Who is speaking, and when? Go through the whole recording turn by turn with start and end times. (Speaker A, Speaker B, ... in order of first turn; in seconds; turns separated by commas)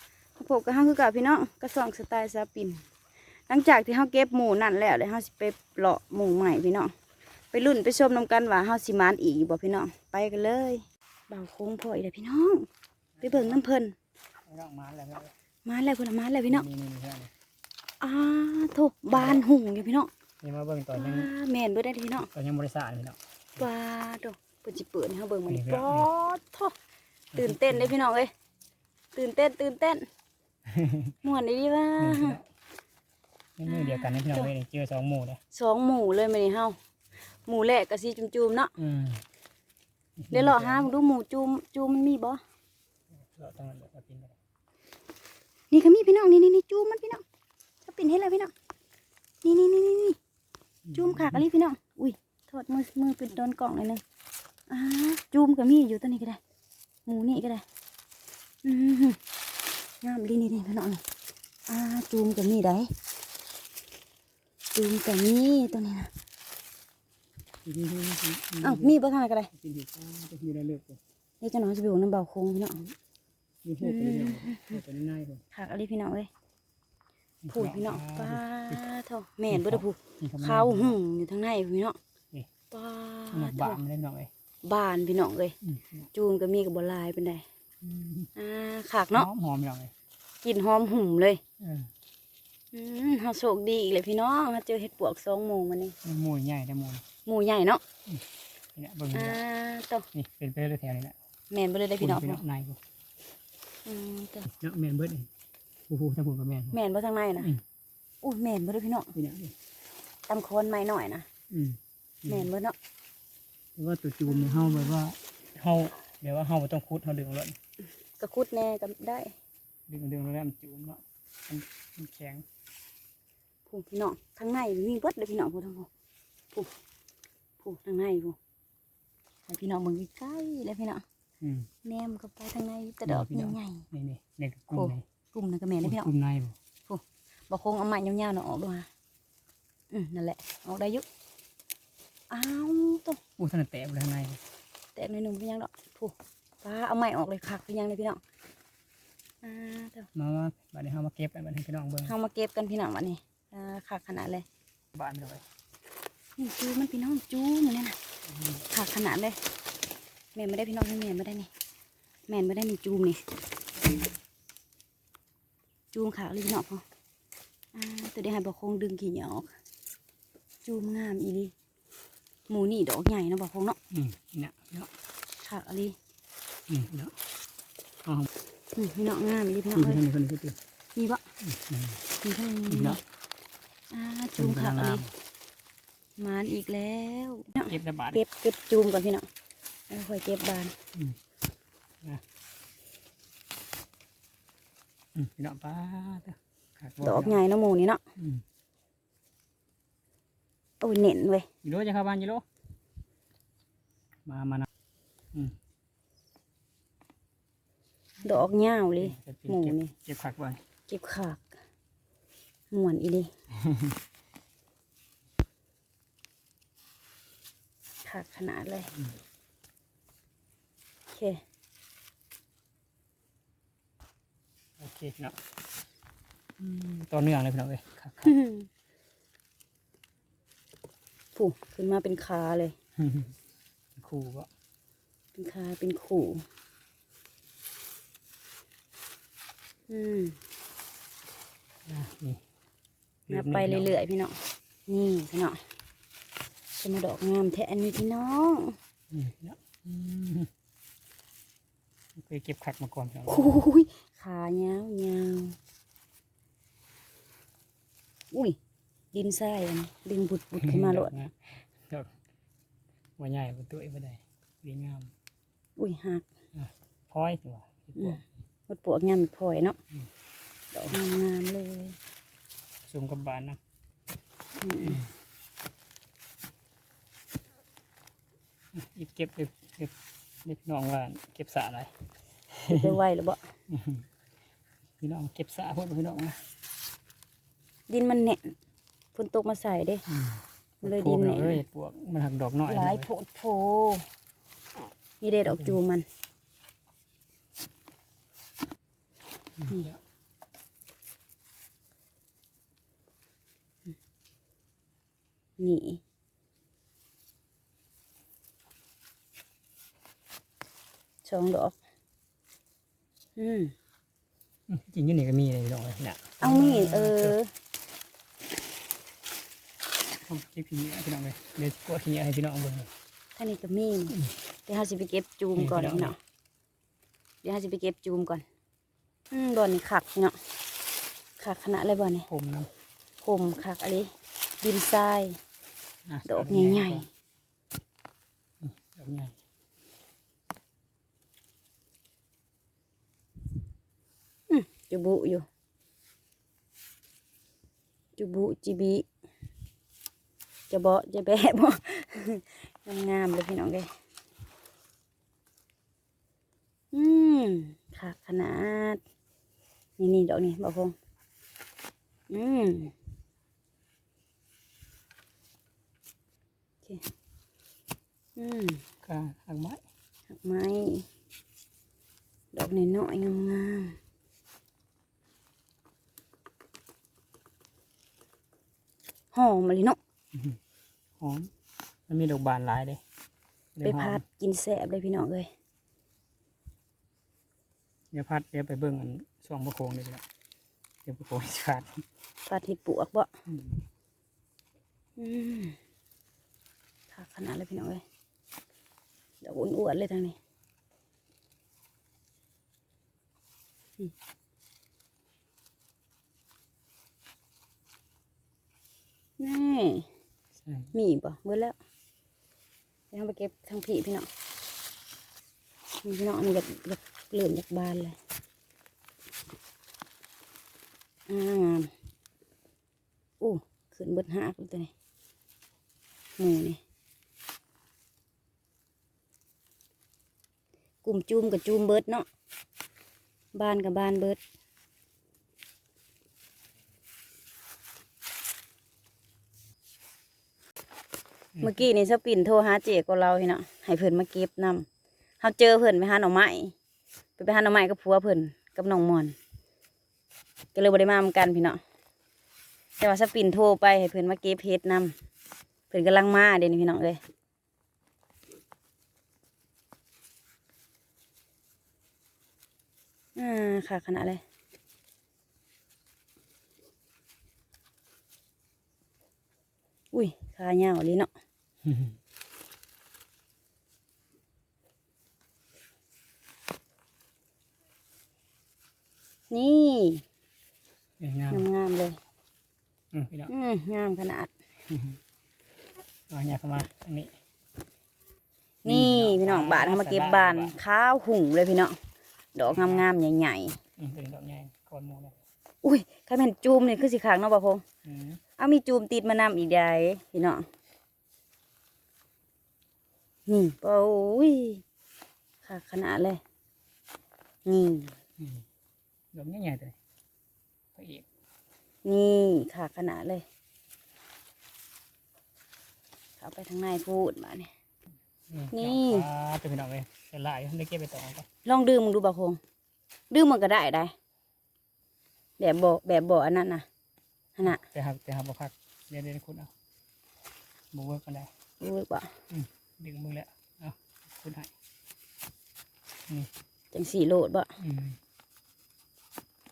Speaker A: 0.3-2.8, Speaker A: 3.5-6.9, Speaker A: 7.5-12.7, Speaker B: 13.2-13.6, Speaker A: 13.2-13.9, Speaker B: 14.4-15.3, Speaker A: 15.6-16.6, Speaker B: 16.5-17.3, Speaker A: 18.0-20.1, Speaker B: 19.1-19.4, Speaker B: 20.4-21.3, Speaker A: 20.9-22.3, Speaker B: 22.2-23.6, Speaker A: 23.6-26.7, Speaker B: 25.5-26.1, Speaker B: 27.3-27.9, Speaker A: 27.3-28.3, Speaker A: 29.1-30.1, Speaker B: 30.7-31.1, Speaker A: 31.2-32.4, Speaker B: 32.0-32.5, Speaker B: 33.6-35.4, Speaker A: 33.7-34.5, Speaker A: 35.5-36.8, Speaker A: 37.4-38.7, Speaker B: 38.8-39.2, Speaker B: 40.2-40.9, Speaker A: 40.3-42.4, Speaker B: 43.3-44.4, Speaker A: 45.7-47.2, Speaker A: 47.8-48.5, Speaker A: 49.4-50.2, Speaker B: 50.8-51.4, Speaker A: 50.9-54.0, Speaker A: 54.7-56.4, Speaker A: 57.0-57.6, Speaker A: 58.6-59.2, Speaker A: 60.0-61.0, Speaker A: 61.7-62.9, Speaker A: 64.7-66.1, Speaker B: 67.6-68.9, Speaker A: 68.6-69.5, Speaker B: 69.5-71.0, Speaker A: 71.4-72.8, Speaker B: 73.6-75.4, Speaker A: 73.8-74.8, Speaker A: 75.5-76.3, Speaker B: 77.4-78.8, Speaker A: 77.5-82.0, Speaker B: 79.5-81.0, Speaker A: 82.7-83.8, Speaker B: 83.3-84.3, Speaker A: 84.6-85.5, Speaker B: 85.6-86.1, Speaker A: 86.1-87.4, Speaker B: 87.8-88.3, Speaker A: 88.3-89.3, Speaker B: 89.1-89.9, Speaker A: 90.4-91.4, Speaker B: 91.6-91.9, Speaker A: 92.7-96.0, Speaker B: 96.0-97.0, Speaker A: 97.2-97.8, Speaker B: 98.7-99.4, Speaker A: 99.1-100.0, Speaker B: 100.1-101.2, Speaker A: 101.5-102.4, Speaker B: 102.0-102.8, Speaker A: 103.8-104.5, Speaker B: 104.4-105.3, Speaker B: 105.9-106.8, Speaker A: 106.7-107.5, Speaker A: 108.2-109.1, Speaker B: 109.1-109.5, Speaker A: 110.3-111.2, Speaker B: 111.5-112.5, Speaker A: 112.3-112.8, Speaker B: 113.8-117.5, Speaker A: 114.3-114.9, Speaker A: 118.2-119.3, Speaker B: 119.9-122.4, Speaker A: 123.7-125.9, Speaker A: 127.6-128.4, Speaker A: 129.5-131.0, Speaker B: 131.4-131.7, Speaker A: 131.8-133.9, Speaker B: 133.1-135.0, Speaker A: 134.7-136.1, Speaker B: 135.8-136.6, Speaker A: 136.9-138.9, Speaker A: 139.9-141.0, Speaker A: 142.3-143.2, Speaker B: 143.4-144.4, Speaker A: 144.9-148.2, Speaker A: 149.4-150.1, Speaker B: 150.1-152.1, Speaker A: 152.0-154.4, Speaker B: 154.9-155.4, Speaker A: 156.4-157.9, Speaker B: 158.3-158.6, Speaker A: 158.7-159.4, Speaker A: 160.3-161.5, Speaker A: 162.3-163.2, Speaker A: 165.9-166.8, Speaker A: 167.7-169.5, Speaker A: 170.7-171.5, Speaker A: 172.5-173.8, Speaker B: 173.9-174.9, Speaker A: 175.4-175.9, Speaker B: 176.7-177.1, Speaker B: 178.0-178.3, Speaker A: 178.7-180.0, Speaker B: 179.7-180.6, Speaker A: 180.9-181.2, Speaker B: 181.4-182.0, Speaker A: 182.2-183.0, Speaker B: 182.7-183.0, Speaker A: 183.9-185.0, Speaker B: 184.4-185.1, Speaker A: 186.2-189.3, Speaker B: 187.7-188.2, Speaker A: 189.9-190.7, Speaker B: 195.1-197.4, Speaker A: 197.0-198.0, Speaker B: 198.2-198.4, Speaker A: 200.8-201.4, Speaker B: 201.6-202.4, Speaker B: 204.2-204.7, Speaker A: 208.2-209.9, Speaker B: 209.0-210.6, Speaker A: 210.9-211.5, Speaker A: 212.7-213.3, Speaker B: 213.7-213.9, Speaker A: 218.0-218.9, Speaker A: 221.1-221.4, Speaker B: 224.8-225.3, Speaker B: 226.6-228.3, Speaker A: 228.2-228.7, Speaker A: 231.3-232.7, Speaker B: 233.0-233.3, Speaker B: 233.9-234.5, Speaker A: 235.3-236.4, Speaker A: 239.9-240.3, Speaker B: 241.8-242.4, Speaker B: 243.3-243.9, Speaker A: 243.3-245.6, Speaker A: 246.8-248.8, Speaker B: 249.1-250.5, Speaker B: 252.2-253.6, Speaker A: 253.3-255.6, Speaker A: 259.1-261.1, Speaker B: 260.6-262.1, Speaker B: 263.2-265.1, Speaker A: 265.8-266.2, Speaker B: 266.5-268.2, Speaker A: 267.9-269.8, Speaker A: 270.7-271.9, Speaker B: 272.8-273.6, Speaker A: 274.6-275.0, Speaker B: 278.7-279.9, Speaker B: 280.4-281.9, Speaker B: 282.5-282.9, Speaker A: 282.7-283.4, Speaker B: 283.7-284.0, Speaker B: 285.0-286.4, Speaker A: 287.9-288.5, Speaker A: 289.1-290.0, Speaker B: 290.1-293.1, Speaker A: 290.8-291.6, Speaker A: 292.7-294.0, Speaker A: 295.2-296.0, Speaker B: 295.5-295.8, Speaker B: 299.6-300.0, Speaker A: 305.6-306.0, Speaker A: 311.2-311.8, Speaker A: 313.4-313.7, Speaker B: 314.7-317.4, Speaker A: 316.4-317.5, Speaker B: 320.2-322.9, Speaker A: 323.4-326.2, Speaker B: 325.6-326.1, Speaker A: 327.4-328.4, Speaker A: 329.3-330.4, Speaker A: 331.4-332.3, Speaker B: 332.3-332.7, Speaker A: 333.2-334.1, Speaker A: 334.6-335.4, Speaker B: 336.1-337.1, Speaker A: 336.2-337.1, Speaker B: 338.6-339.4, Speaker A: 344.5-345.4, Speaker A: 348.2-349.1, Speaker A: 350.7-353.9, Speaker A: 356.9-359.0, Speaker A: 360.0-360.9, Speaker A: 362.3-362.9, Speaker A: 368.4-368.8, Speaker B: 369.0-369.8, Speaker A: 370.3-371.1, Speaker A: 372.5-374.0, Speaker A: 379.3-380.0, Speaker B: 381.2-381.5, Speaker B: 382.1-383.0, Speaker B: 383.8-384.2, Speaker A: 383.8-385.5, Speaker B: 388.1-390.2, Speaker B: 391.0-392.0, Speaker A: 392.5-393.3, Speaker B: 393.5-393.8, Speaker A: 395.2-395.8, Speaker A: 397.1-398.0, Speaker A: 399.4-400.4, Speaker A: 409.4-410.1, Speaker B: 410.6-410.9, Speaker A: 410.9-411.8, Speaker A: 413.1-414.3, Speaker A: 416.0-418.1, Speaker A: 421.3-421.9, Speaker A: 423.4-424.9, Speaker A: 426.4-426.8, Speaker A: 431.0-432.3, Speaker A: 433.5-434.4, Speaker B: 441.5-441.8, Speaker A: 441.6-444.9, Speaker A: 445.4-446.7, Speaker A: 447.4-449.4, Speaker A: 450.7-451.8, Speaker A: 453.0-455.1, Speaker A: 455.9-457.2, Speaker A: 463.4-464.4, Speaker A: 470.1-471.3, Speaker B: 471.8-472.1, Speaker A: 479.5-480.2, Speaker B: 481.2-481.6, Speaker A: 481.5-482.1, Speaker B: 483.1-483.5, Speaker A: 483.5-484.5, Speaker B: 484.9-485.2, Speaker B: 486.3-487.3, Speaker A: 488.8-492.0, Speaker B: 488.9-490.8, Speaker A: 492.5-493.8, Speaker B: 492.7-493.1, Speaker B: 494.0-495.4, Speaker A: 495.8-497.8, Speaker B: 498.0-498.4, Speaker A: 498.6-500.6, Speaker A: 503.5-504.8, Speaker A: 505.6-506.4, Speaker A: 507.6-508.1, Speaker B: 508.4-508.6, Speaker B: 509.3-509.9, Speaker B: 510.9-511.2, Speaker A: 512.0-513.4, Speaker A: 516.4-517.7, Speaker B: 518.5-521.5, Speaker A: 518.7-519.2, Speaker A: 521.6-522.6, Speaker A: 523.3-524.1, Speaker A: 525.6-526.8, Speaker A: 527.6-527.8, Speaker B: 527.6-529.7, Speaker B: 530.9-531.5, Speaker A: 531.8-532.3, Speaker B: 532.5-534.7, Speaker A: 536.9-537.7, Speaker B: 537.8-538.2